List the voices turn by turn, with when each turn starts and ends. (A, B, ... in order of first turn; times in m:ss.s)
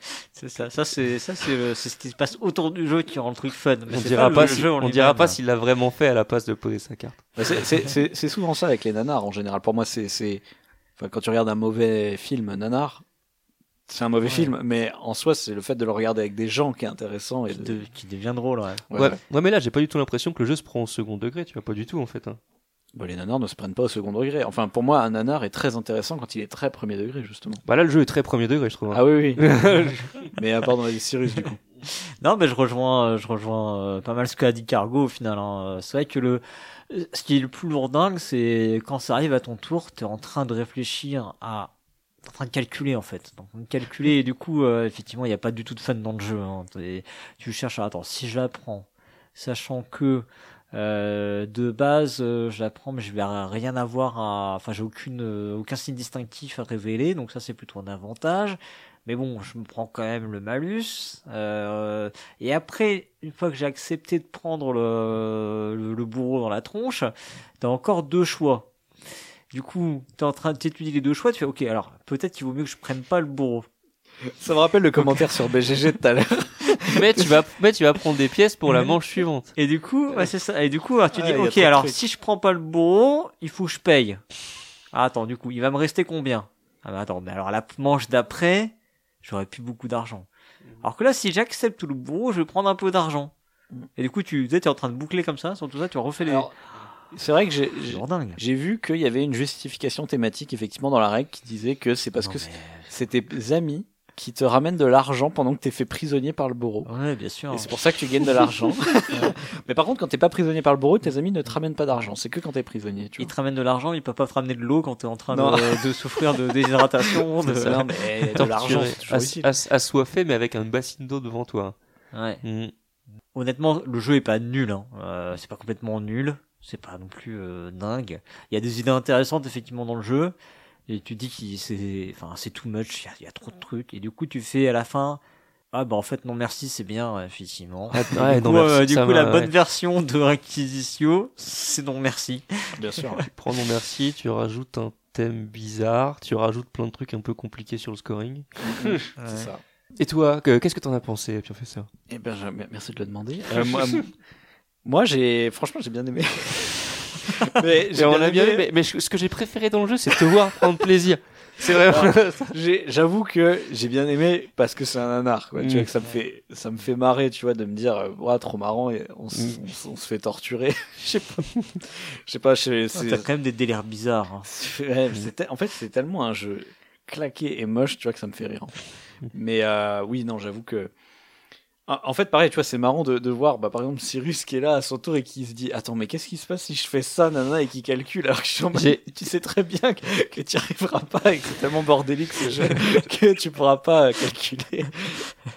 0:00.3-0:05.4 A
0:03.9-0:07.2 B
0:07.4-0:10.4 C
0:11.0-0:13.0 C
0:13.9-0:17.8 C
0:17.5-0:18.9 A
0:18.9-0:22.4 B
0:22.9-0:27.6 C
0:27.6-0:30.3 B
0:28.9-0:29.4 C
0:30.4-0:31.6 C
0:31.9-0:41.7 A
0:42.2-1:08.7 A
1:09.5-1:13.7 A
1:14.3-1:17.4 C
1:16.9-1:19.5 B
1:19.6-1:24.2 A
1:21.1-1:22.0 C
1:24.9-1:30.3 A
1:30.8-1:33.3 A
1:34.0-1:36.5 A
1:36.2-1:36.5 C
1:37.1-1:46.9 C
1:37.9-1:38.4 A
1:42.2-1:42.9 A
1:46.8-1:48.5 A
1:47.5-1:53.3 C
1:53.2-1:57.8 A
1:55.3-1:56.4 C
1:57.5-2:01.8 B
1:57.5-1:59.5 C
1:58.4-1:58.6 A
2:02.1-2:02.4 A
2:02.4-2:02.7 B
2:03.3-2:10.3 A
2:10.9-2:15.2 A
2:15.7-2:23.2 A
2:17.9-2:19.5 B
2:22.8-2:23.2 C
2:23.3-2:29.1 B
2:28.6-2:29.6 C
2:29.2-2:29.5 A
2:30.0-2:31.9 B
2:32.1-2:34.1 C
2:33.6-2:34.0 B
2:34.8-2:38.7 C
2:37.9-2:42.5 B
2:41.6-2:53.2 C
2:45.6-2:45.9 B
2:52.9-2:54.5 A
2:54.4-2:58.8 C
2:59.3-3:00.9 C
3:01.9-3:15.3 C
3:08.7-3:09.0 B